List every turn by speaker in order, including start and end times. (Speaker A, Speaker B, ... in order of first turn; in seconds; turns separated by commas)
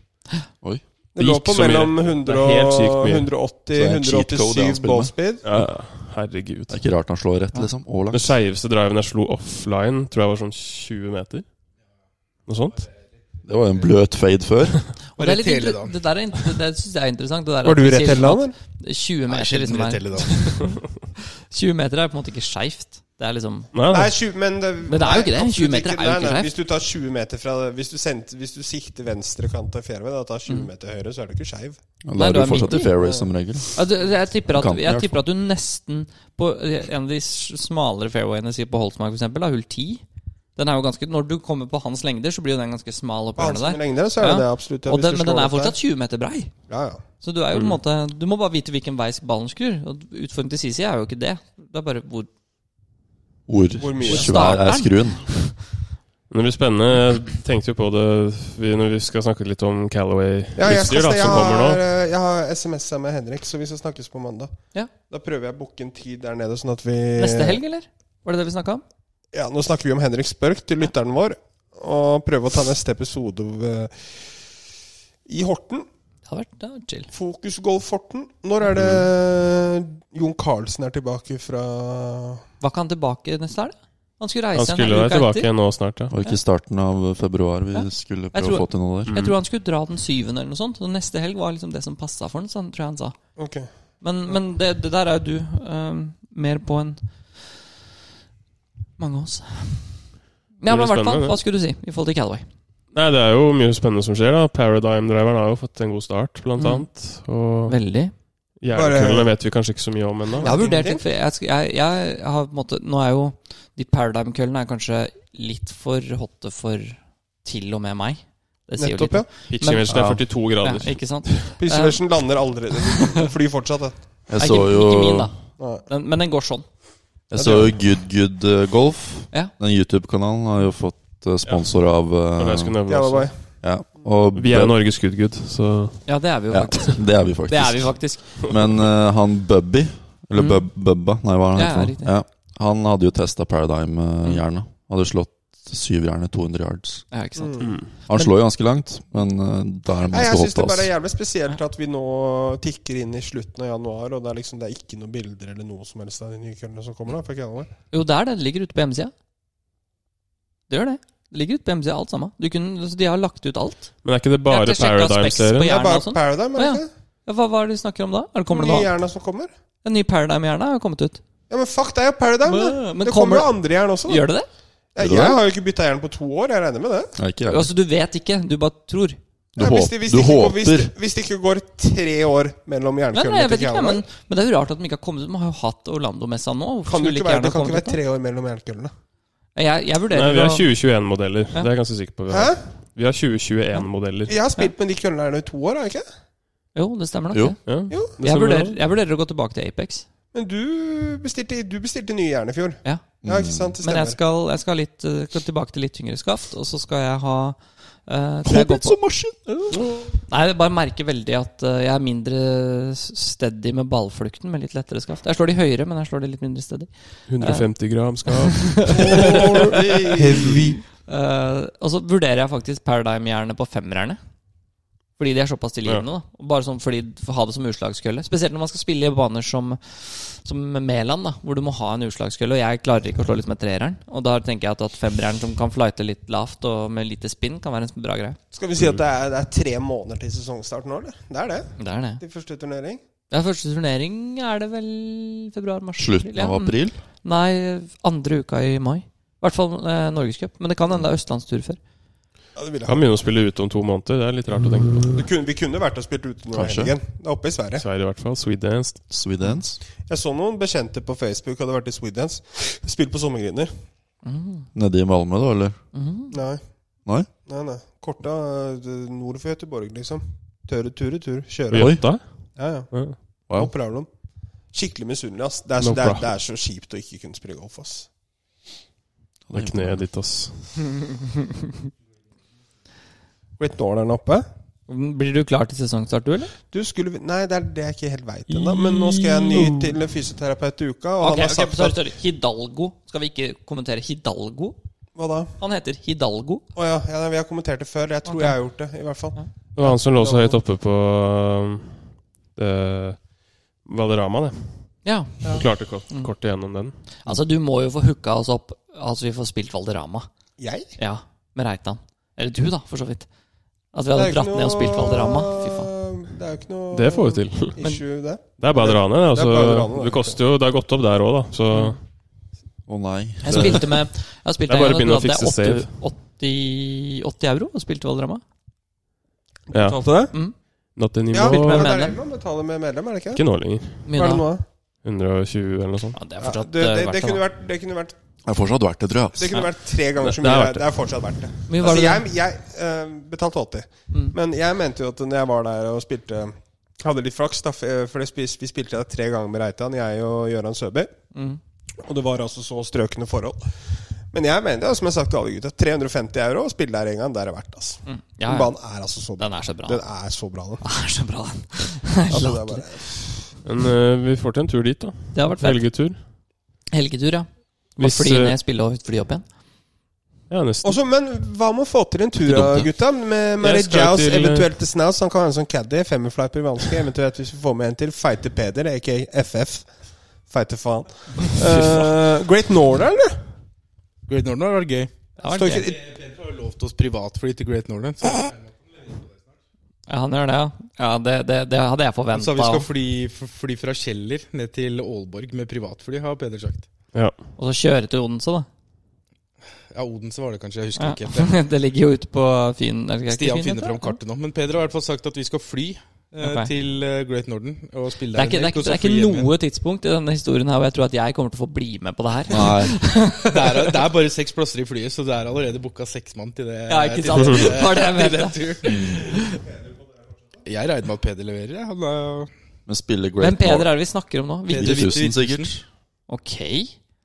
Speaker A: 1.1-5.4, Speaker B: 1.2-3.3, Speaker C: 3.7-5.6, Speaker B: 5.4-6.8, Speaker C: 6.7-8.3, Speaker B: 8.1-11.4, Speaker B: 12.5-12.9, Speaker C: 13.4-14.9, Speaker D: 15.2-16.0, Speaker E: 15.2-20.9, Speaker A: 17.6-18.6, Speaker D: 19.3-20.7, Speaker E: 21.5-23.7, Speaker B: 23.7-24.1, Speaker A: 23.9-31.8, Speaker E: 24.9-26.5, Speaker C: 32.0-33.8, Speaker E: 32.2-32.9, Speaker A: 33.0-33.3, Speaker E: 33.8-40.0, Speaker C: 34.5-35.2, Speaker E: 40.6-46.5, Speaker A: 43.4-45.8, Speaker A: 46.7-47.0, Speaker E: 47.2-52.3, Speaker C: 53.5-55.3, Speaker A: 53.8-54.6, Speaker E: 54.1-55.5, Speaker B: 56.3-61.8, Speaker A: 60.6-64.5, Speaker A: 65.1-67.6, Speaker E: 67.2-68.8, Speaker A: 69.3-74.0, Speaker A: 75.3-75.9, Speaker E: 76.3-77.1, Speaker A: 77.1-82.4, Speaker E: 82.6-85.5, Speaker B: 84.5-86.1, Speaker C: 86.1-89.1, Speaker E: 87.7-93.2, Speaker B: 89.1-89.3, Speaker A: 93.4-93.7, Speaker E: 94.0-97.5, Speaker E: 99.0-100.0, Speaker E: 100.6-102.5, Speaker B: 100.7-101.4, Speaker B: 102.9-107.8, Speaker E: 106.6-107.0, Speaker E: 107.7-108.1, Speaker B: 108.6-110.5, Speaker A: 108.7-109.3, Speaker A: 110.4-111.0, Speaker E: 110.4-119.9, Speaker A: 118.8-119.3, Speaker B: 119.5-121.5, Speaker C: 119.9-120.2, Speaker E: 120.6-122.0, Speaker A: 121.6-124.0, Speaker E: 122.8-123.2, Speaker C: 124.3-125.3, Speaker E: 124.4-126.7, Speaker A: 125.6-125.8, Speaker C: 127.3-132.8, Speaker A: 127.3-127.7, Speaker B: 132.3-133.3, Speaker A: 132.9-133.4, Speaker C: 133.6-134.8, Speaker B: 134.3-136.1, Speaker E: 136.1-138.5, Speaker C: 136.5-147.1, Speaker E: 140.3-140.6, Speaker E: 141.6-142.1, Speaker E: 147.1-148.3, Speaker A: 147.4-147.8, Speaker B: 147.6-147.9, Speaker C: 148.1-150.9, Speaker A: 150.1-157.7, Speaker E: 157.9-159.1, Speaker E: 160.7-163.9, Speaker B: 164.0-165.7, Speaker E: 164.5-168.9, Speaker A: 165.7-166.9, Speaker A: 168.5-169.5, Speaker E: 169.8-171.2, Speaker A: 171.5-174.3, Speaker E: 172.4-174.5, Speaker A: 174.9-177.2, Speaker C: 175.0-175.4, Speaker C: 177.2-177.7, Speaker E: 177.5-179.2, Speaker C: 179.6-180.9, Speaker A: 179.6-184.0, Speaker E: 183.1-188.0, Speaker A: 186.9-188.9, Speaker E: 189.6-190.7, Speaker B: 190.1-194.3, Speaker A: 192.3-192.6, Speaker A: 194.3-196.1, Speaker E: 196.8-200.1, Speaker B: 197.7-198.8, Speaker A: 200.3-204.2, Speaker C: 203.2-203.8, Speaker E: 203.8-209.0, Speaker C: 208.5-210.0, Speaker E: 210.1-217.7, Speaker B: 217.3-219.7, Speaker E: 218.3-224.2, Speaker A: 218.9-220.8, Speaker B: 220.3-220.7, Speaker E: 225.2-238.4, Speaker A: 238.5-243.0, Speaker E: 241.8-242.2, Speaker E: 243.3-251.8, Speaker C: 246.0-247.0, Speaker A: 252.6-253.0, Speaker B: 252.9-255.2, Speaker A: 255.1-257.9, Speaker C: 256.5-257.0, Speaker B: 257.8-259.0, Speaker C: 259.1-259.8, Speaker A: 260.1-263.7, Speaker E: 264.2-264.7, Speaker C: 264.8-265.8, Speaker E: 265.9-266.4, Speaker A: 266.3-266.6, Speaker A: 267.5-272.9, Speaker B: 271.7-273.2, Speaker C: 271.7-272.0, Speaker A: 273.5-274.1, Speaker A: 274.7-278.1, Speaker B: 275.8-276.3, Speaker C: 279.5-280.1, Speaker B: 279.5-280.8, Speaker A: 283.6-284.5, Speaker E: 284.9-286.5, Speaker A: 286.7-292.0, Speaker B: 288.5-289.9, Speaker E: 291.2-294.8, Speaker A: 295.2-295.5, Speaker E: 295.6-296.6, Speaker A: 296.8-300.6, Speaker E: 298.2-298.6, Speaker B: 299.8-302.0, Speaker B: 302.6-303.3, Speaker B: 303.8-304.9, Speaker E: 305.1-306.3, Speaker B: 305.4-306.9, Speaker E: 307.2-310.3, Speaker A: 310.6-310.9, Speaker E: 311.0-313.3, Speaker E: 313.9-315.9, Speaker A: 314.1-320.4, Speaker B: 316.9-317.8, Speaker B: 318.6-322.0, Speaker E: 321.7-322.0, Speaker C: 322.9-323.9, Speaker E: 323.4-328.4, Speaker B: 323.5-323.8, Speaker B: 324.7-326.0, Speaker A: 329.7-330.3, Speaker B: 329.7-330.3, Speaker B: 331.0-332.0, Speaker A: 331.3-333.4, Speaker E: 331.4-332.2, Speaker B: 333.4-334.1, Speaker E: 334.1-334.5, Speaker A: 334.1-334.6, Speaker B: 335.0-336.2, Speaker E: 336.1-337.4, Speaker A: 336.4-338.1, Speaker C: 338.4-339.6, Speaker A: 339.3-351.1, Speaker B: 340.2-340.9, Speaker E: 341.7-342.2, Speaker E: 344.1-344.4, Speaker E: 351.3-351.6, Speaker A: 352.0-353.6, Speaker A: 354.3-360.8, Speaker E: 358.1-358.7, Speaker E: 359.4-360.1, Speaker E: 360.8-362.9, Speaker A: 362.3-363.5, Speaker B: 363.6-366.2, Speaker E: 365.3-365.8, Speaker E: 366.9-369.4, Speaker B: 368.0-368.5, Speaker B: 370.5-371.0, Speaker A: 370.9-379.9, Speaker C: 372.4-372.9, Speaker B: 373.6-374.7, Speaker A: 380.5-383.5, Speaker D: 384.3-385.1, Speaker E: 385.4-385.9, Speaker A: 385.5-386.0, Speaker D: 385.7-389.5, Speaker E: 390.1-392.9, Speaker D: 392.3-396.9, Speaker E: 397.6-398.7, Speaker D: 399.9-401.6, Speaker E: 401.0-404.2, Speaker D: 403.3-409.5, Speaker E: 406.4-406.7, Speaker E: 408.3-413.9, Speaker C: 412.5-413.0, Speaker D: 413.4-419.4, Speaker E: 416.9-419.6, Speaker C: 418.8-419.3, Speaker D: 420.6-422.5, Speaker C: 422.9-424.0, Speaker E: 423.4-425.2, Speaker D: 424.7-425.7, Speaker C: 424.7-425.9, Speaker E: 426.3-427.0